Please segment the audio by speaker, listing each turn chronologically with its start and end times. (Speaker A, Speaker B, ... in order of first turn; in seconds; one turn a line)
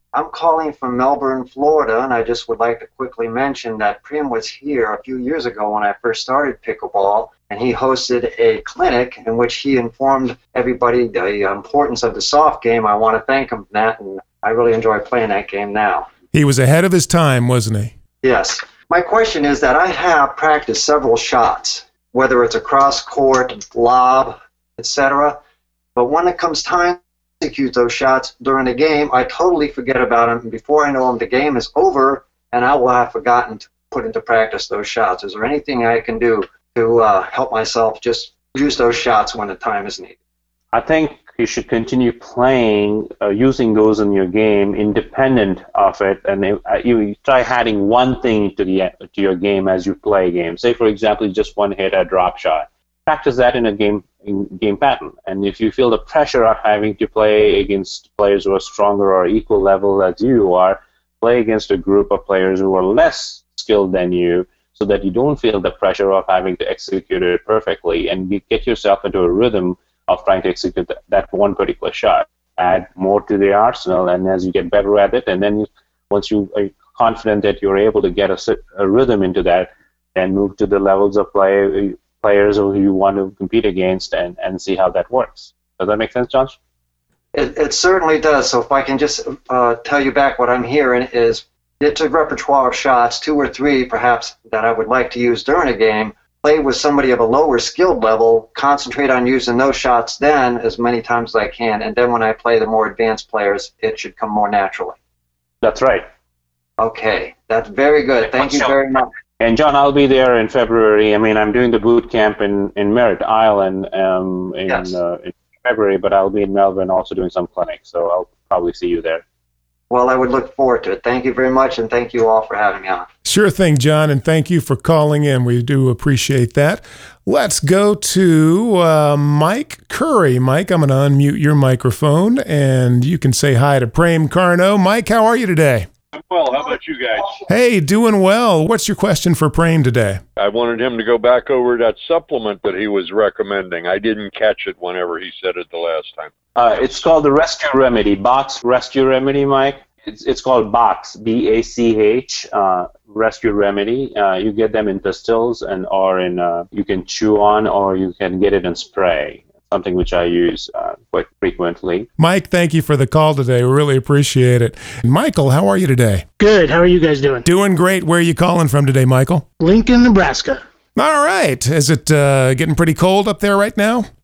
Speaker A: 0.1-16.1
Speaker B: 16.3-17.9
Speaker A: 18.2-25.4
Speaker A: 25.9-40.1
Speaker C: 40.7-86.5
Speaker A: 87.3-105.0
Speaker C: 105.6-106.0
Speaker A: 106.8-109.1
Speaker C: 108.3-108.7
Speaker C: 109.4-119.2
Speaker A: 114.7-115.0
Speaker A: 119.9-123.1
Speaker B: 123.2-135.9
Speaker D: 136.1-137.4
Speaker B: 137.5-140.2
Speaker D: 140.4-146.3
Speaker C: 146.6-162.1
Speaker B: 162.2-166.2
Speaker E: 166.4-167.5
Speaker B: 167.4-169.4
Speaker E: 169.6-170.6
Speaker B: 170.9-174.1